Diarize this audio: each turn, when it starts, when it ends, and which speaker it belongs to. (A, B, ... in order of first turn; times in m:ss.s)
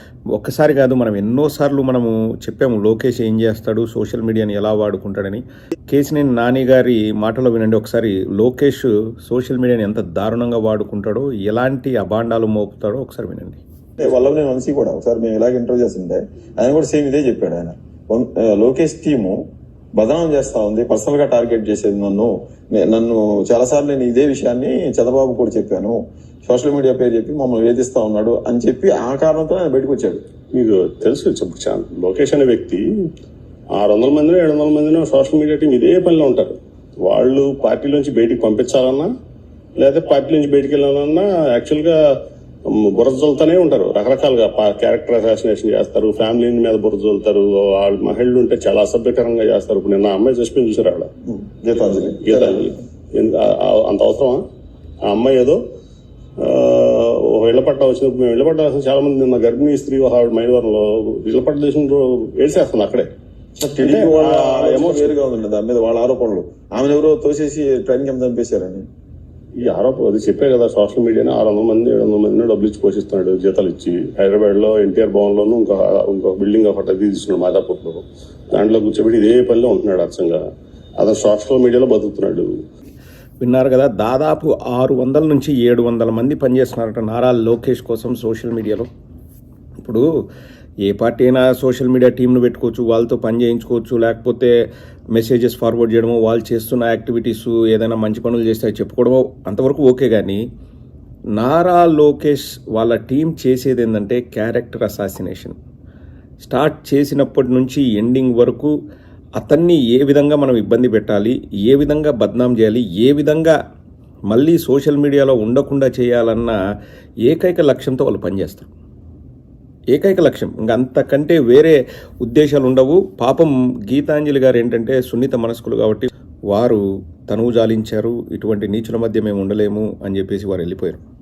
0:00.3-0:13.6 A
0:14.0-0:19.4 B
0:19.9-0:30.2 B
0:30.5-0:32.8 C
0:33.8-0:39.1 C
0:39.8-0:42.0 C
0:42.6-0:51.1 C
0:51.2-0:52.7 B
0:52.2-0:54.4 C
0:55.0-0:55.6 C
0:56.4-1:03.1 C
1:03.6-1:08.8 B
1:03.8-1:05.1 C
1:09.6-1:20.4 C
1:21.0-1:22.5 C
1:23.4-1:28.9 A
1:29.8-1:30.1 A
1:30.8-1:34.5 A
1:35.1-1:40.4 A
1:41.4-1:45.6 A
1:46.4-1:48.7 A
1:49.4-1:53.6 A
1:54.3-1:56.6 A
1:57.2-1:58.7 A
1:59.9-2:11.0 A